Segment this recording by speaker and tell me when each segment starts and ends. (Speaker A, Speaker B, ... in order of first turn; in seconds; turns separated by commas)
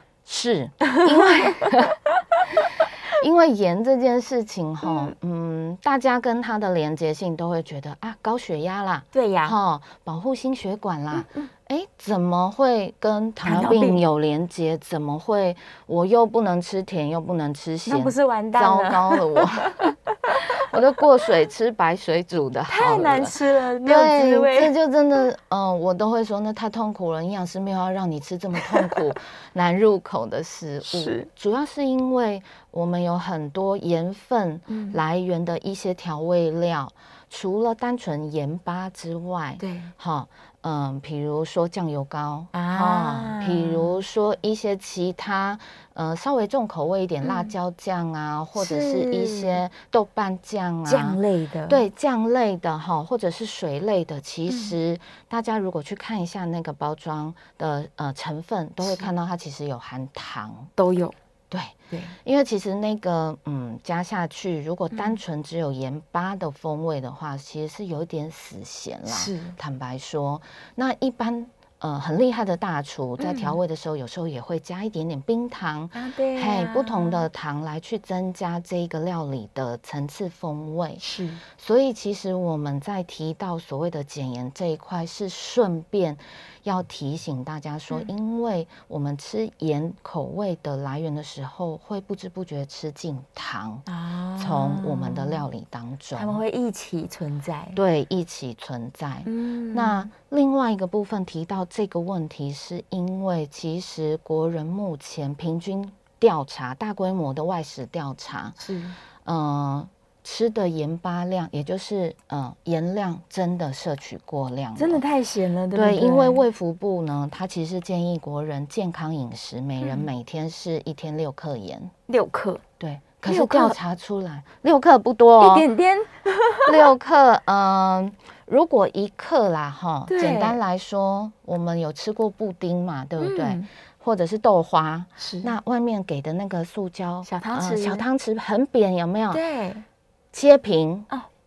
Speaker A: 0.3-2.0, Speaker B: 0.9-1.7, Speaker A: 2.6-19.9, Speaker B: 4.8-5.1, Speaker B: 9.1-9.6, Speaker B: 11.1-11.5, Speaker B: 13.4-14.0, Speaker B: 17.9-20.4, Speaker A: 20.5-60.7, Speaker B: 22.7-24.7, Speaker B: 30.9-31.3, Speaker B: 34.7-35.0, Speaker B: 39.6-39.9, Speaker B: 42.5-44.0, Speaker B: 47.2-47.5, Speaker B: 48.6-49.6, Speaker B: 50.9-51.8, Speaker B: 54.5-54.8, Speaker B: 58.8-59.1, Speaker B: 60.8-61.2, Speaker A: 61.5-81.0, Speaker B: 61.9-62.2, Speaker B: 64.9-65.2, Speaker B: 69.1-69.6, Speaker B: 73.2-73.6, Speaker B: 75.9-77.3, Speaker B: 81.0-81.4, Speaker A: 81.6-93.9, Speaker B: 93.9-95.5, Speaker A: 94.4-96.4, Speaker B: 96.2-97.8, Speaker A: 97.8-108.6, Speaker B: 99.3-100.1, Speaker B: 108.6-109.0, Speaker A: 109.2-115.0, Speaker B: 114.8-116.4, Speaker A: 115.7-121.9, Speaker B: 119.8-120.1, Speaker B: 122.1-122.6, Speaker A: 122.8-125.7, Speaker B: 123.2-123.8, Speaker B: 125.4-126.9, Speaker A: 126.7-139.4, Speaker B: 130.1-130.6, Speaker B: 133.2-133.7, Speaker B: 135.2-135.5, Speaker B: 137.2-138.0, Speaker B: 139.3-139.8, Speaker A: 140.3-141.1